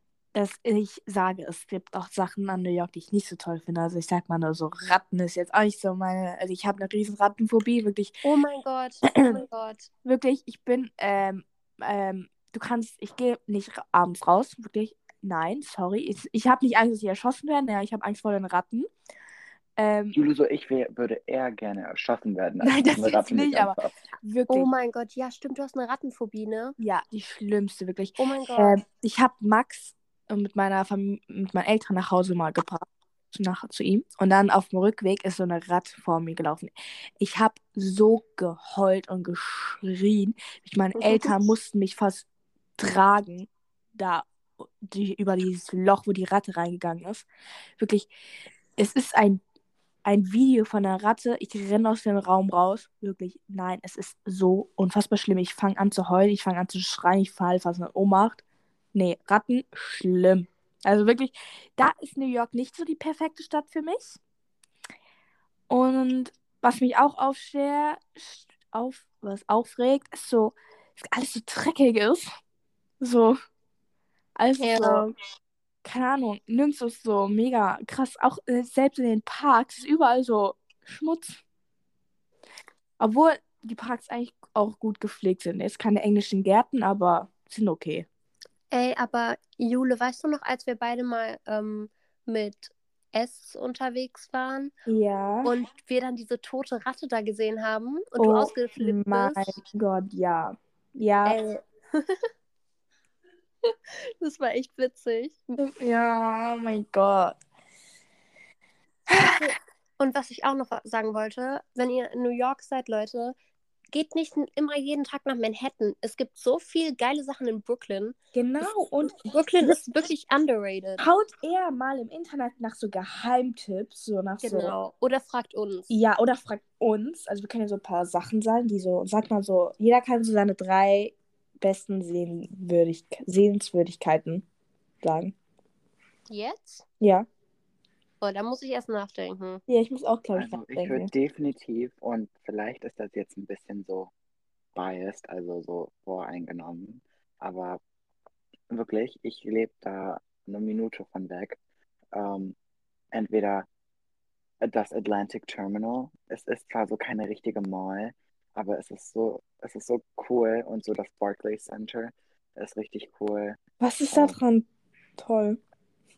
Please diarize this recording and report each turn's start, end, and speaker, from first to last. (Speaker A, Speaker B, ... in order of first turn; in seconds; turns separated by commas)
Speaker A: 0.3-8.2, Speaker B: 8.2-9.9, Speaker A: 9.1-9.4, Speaker A: 10.0-18.9, Speaker A: 19.8-20.1, Speaker C: 20.1-23.9, Speaker A: 22.6-24.7, Speaker B: 24.5-26.8, Speaker A: 26.8-42.2, Speaker B: 28.2-28.8, Speaker B: 41.0-41.3, Speaker A: 42.8-47.3, Speaker A: 47.8-48.1, Speaker A: 48.8-49.4, Speaker A: 50.0-58.4, Speaker A: 58.9-64.2, Speaker A: 65.7-72.2, Speaker A: 73.0-73.4, Speaker A: 74.4-75.1, Speaker B: 74.6-75.0, Speaker A: 75.8-81.4, Speaker A: 83.0-88.1, Speaker B: 88.7-94.7, Speaker A: 94.9-95.5, Speaker B: 95.4-99.5, Speaker A: 98.2-101.4, Speaker B: 101.2-102.3, Speaker B: 103.6-105.6, Speaker A: 105.6-107.3, Speaker A: 109.1-109.4, Speaker B: 109.2-113.3, Speaker B: 113.9-121.0, Speaker A: 118.3-119.8, Speaker A: 121.0-124.7, Speaker B: 124.4-125.9, Speaker A: 125.9-134.4, Speaker A: 135.0-135.3, Speaker B: 136.3-136.8, Speaker A: 137.0-137.3, Speaker B: 138.2-139.6, Speaker A: 139.7-141.1, Speaker C: 140.3-144.1, Speaker C: 144.7-147.8, Speaker C: 148.7-151.6, Speaker C: 152.1-152.6, Speaker C: 153.1-153.7, Speaker C: 154.6-163.6, Speaker A: 163.8-165.6, Speaker C: 164.1-164.4